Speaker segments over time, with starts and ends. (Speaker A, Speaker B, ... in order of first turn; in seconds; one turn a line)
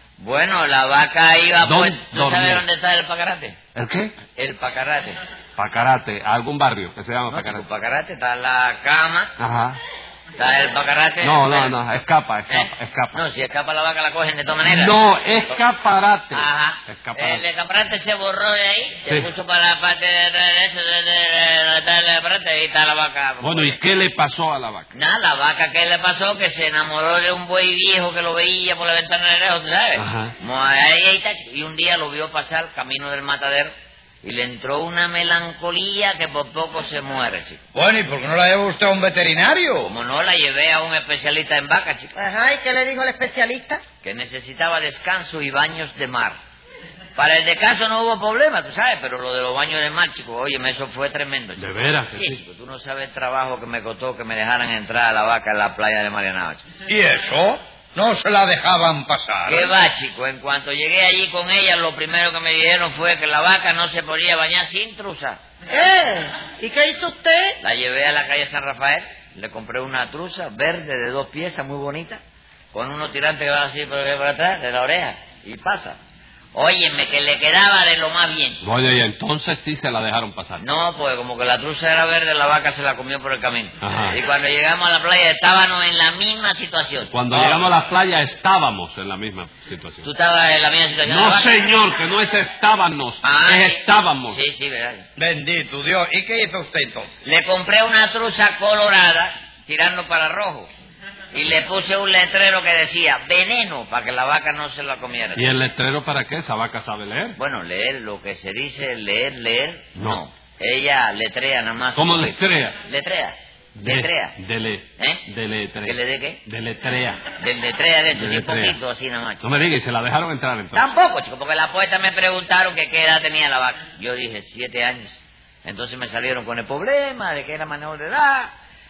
Speaker A: 0.2-3.6
Speaker B: 1.6-2.6
Speaker B: 3.8-4.2
Speaker A: 4.3-5.2
Speaker B: 5.6-7.6
Speaker A: 7.3-9.3
Speaker B: 9.4-9.8
Speaker A: 10.4-11.8
Speaker B: 11.2-13.2
Speaker A: 12.5-15.6
Speaker B: 14.6-17.4
Speaker A: 16.3-23.8
Speaker B: 19.1-19.3
Speaker B: 23.4-24.9
Speaker A: 24.9-33.7
Speaker B: 30.0-30.3
Speaker A: 34.2-37.6
Speaker C: 37.7-39.9
Speaker A: 39.8-42.1
Speaker D: 42.1-43.8
Speaker A: 44.0-46.4
Speaker A: 47.2-56.6
Speaker B: 51.6-52.4
Speaker C: 56.9-59.7
Speaker A: 59.5-65.4
Speaker D: 65.7-67.6
Speaker A: 67.6-72.2
Speaker A: 72.7-76.0
Speaker A: 76.5-78.6
Speaker B: 78.6-80.6
Speaker A: 80.6-87.1
Speaker B: 83.8-84.2
Speaker B: 87.1-90.1
Speaker C: 87.3-87.7
Speaker A: 90.0-91.5
Speaker B: 91.0-94.4
Speaker A: 93.2-95.0
Speaker C: 95.2-97.1
Speaker A: 97.2-100.7
Speaker A: 101.3-105.5
Speaker B: 105.3-107.4
Speaker A: 107.4-114.3
Speaker B: 110.0-110.2
Speaker B: 112.0-112.8
Speaker B: 113.8-117.3
Speaker A: 115.0-115.2
Speaker A: 115.8-116.4
Speaker A: 117.4-119.4
Speaker B: 118.1-118.8
Speaker B: 119.4-120.9
Speaker A: 120.8-128.5